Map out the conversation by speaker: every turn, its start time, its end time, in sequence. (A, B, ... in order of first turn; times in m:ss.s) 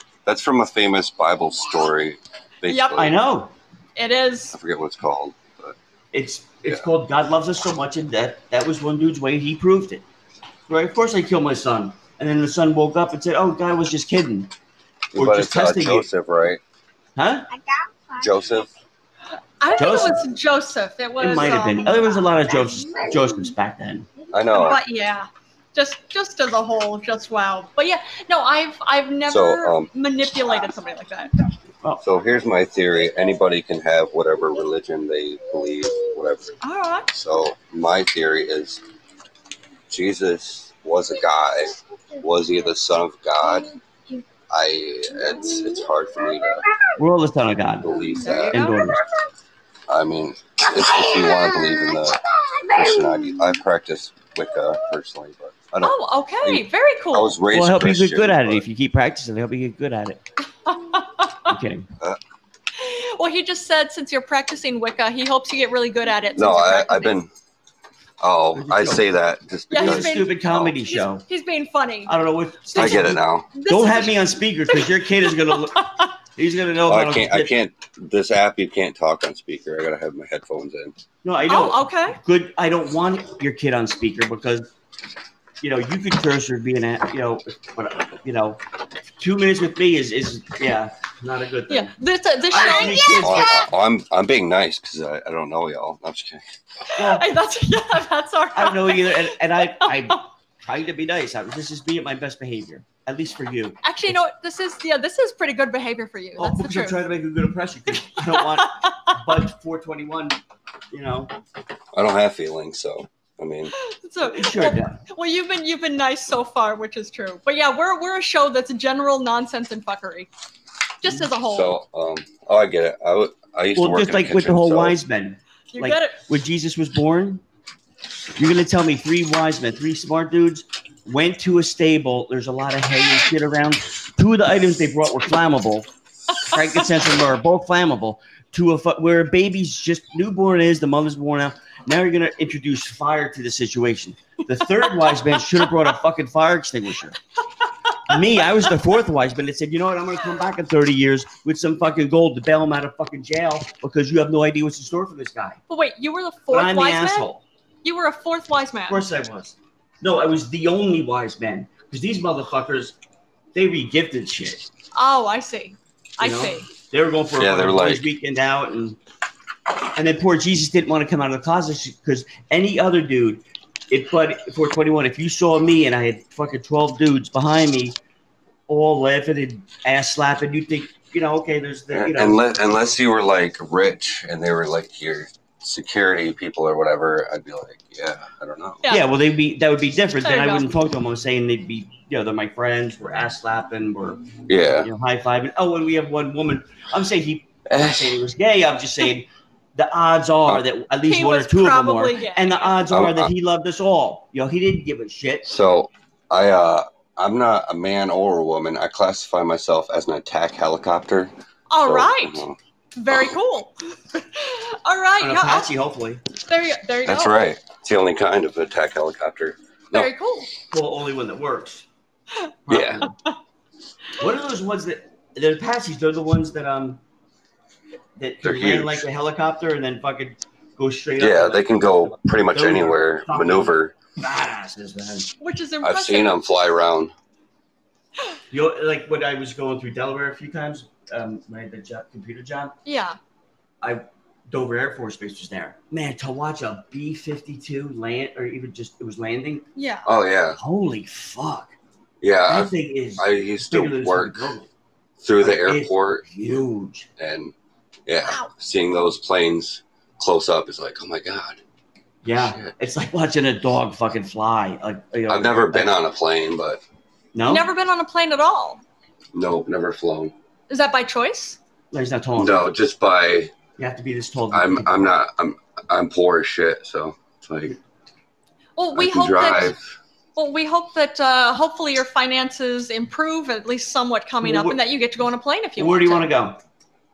0:00.3-0:03.2 A
0:02.6-0:03.1 B
0:03.0-0:03.5 C
0:04.0-0:04.6 B
0:04.5-0:05.8 A
0:06.1-0:10.0 C
0:10.7-0:14.5 C
0:15.1-0:16.6 A
0:15.2-0:16.1 C
0:17.2-0:17.6 C
0:18.2-0:18.7 A
0:19.6-0:22.2 B
0:19.8-0:20.3 C
0:21.2-0:24.1 C
0:24.3-0:24.8 A
0:24.5-0:31.3 B
0:29.3-0:29.9 A
0:32.0-0:36.6 A
0:36.6-0:37.1 B
0:37.1-0:38.8 A
0:39.9-0:43.8 A
0:44.5-0:46.7 A
0:47.0-0:49.0 C
0:47.8-0:48.9 A
0:48.2-0:49.0 B
0:49.9-0:58.6 A
0:55.8-0:57.4 B
0:57.5-1:00.2 C
1:00.6-1:01.5 B
1:01.5-1:01.9 C
1:02.8-1:07.2 B
1:06.4-1:07.3 A
1:08.2-1:10.8 A
1:08.5-1:09.1 C
1:09.7-1:12.2 B
1:09.7-1:11.3 C
1:12.1-1:17.5 C
1:12.7-1:16.1 B
1:12.8-1:13.5 A
1:16.9-1:21.0 A
1:21.2-1:24.7 C
1:21.5-1:22.2 B
1:25.6-1:28.6 C
1:29.2-1:32.0 C
1:31.7-1:33.6 B
1:32.5-1:33.6 C
1:33.2-1:36.4 A
1:37.0-1:37.3 C
1:37.0-1:40.2 B
1:38.5-1:44.1 C
1:43.8-1:47.0 B
1:46.4-1:51.3 C
1:48.3-1:49.2 B
1:51.9-1:53.7 A
1:53.7-2:00.3 B
1:54.2-1:55.0 C
2:01.0-2:01.8 B
2:01.5-2:05.0 A
2:03.8-2:07.4 C
2:05.7-2:06.2 B
2:08.4-2:27.2 C
2:27.9-2:28.2 B
2:28.0-2:35.6 C
2:35.7-2:37.3 B
2:36.5-2:37.4 C
2:37.8-2:39.1 B
2:38.9-2:43.0 C
2:43.5-2:44.7 C
2:44.9-2:46.7 B
2:46.2-2:49.0 C
2:47.4-2:48.1 A
2:50.0-2:58.0 C
2:58.7-3:02.5 C
3:01.9-3:08.8 A
3:08.9-3:25.4 C
3:10.2-3:10.7 B
3:14.5-3:14.9 A
3:17.7-3:18.2 A
3:21.1-3:22.8 B
3:22.9-3:23.3 A
3:25.4-3:31.3 A
3:31.7-3:32.4 B
3:31.8-3:32.6 A
3:33.0-3:35.7 B
3:35.2-3:36.2 C
3:36.5-3:37.4 B
3:37.1-3:40.1 A
3:39.9-3:40.5 B
3:40.7-3:41.9 C
3:42.7-3:43.2 C
3:42.7-3:43.1 A
3:44.2-3:47.0 C
3:48.2-3:55.3 C
3:48.4-3:49.0 A
3:51.2-3:54.0 A
3:55.4-3:56.6 B
3:55.8-3:57.1 A
3:58.5-4:02.8 C
4:02.8-4:03.2 B
4:03.8-4:09.7 C
4:09.8-4:10.1 B
4:10.0-4:10.6 A
4:10.5-4:11.8 C
4:12.2-4:14.5 A
4:12.5-4:14.7 C
4:15.2-4:16.3 A
4:15.4-4:17.1 C
4:17.2-4:17.5 A
4:18.1-4:21.6 A
4:18.2-4:18.5 B
4:22.2-4:25.9 C
4:22.4-4:22.7 A
4:25.3-4:26.8 A
4:27.3-4:27.7 C
4:27.5-4:28.8 B
4:29.3-4:30.3 A
4:30.7-4:31.6 B
4:31.9-4:32.7 C
4:32.4-4:33.5 A
4:33.8-4:35.0 C
4:34.5-4:37.8 A
4:38.8-4:39.7 B
4:39.0-4:39.8 A
4:40.4-4:46.3 B
4:44.4-4:44.8 C
4:45.8-4:46.6 C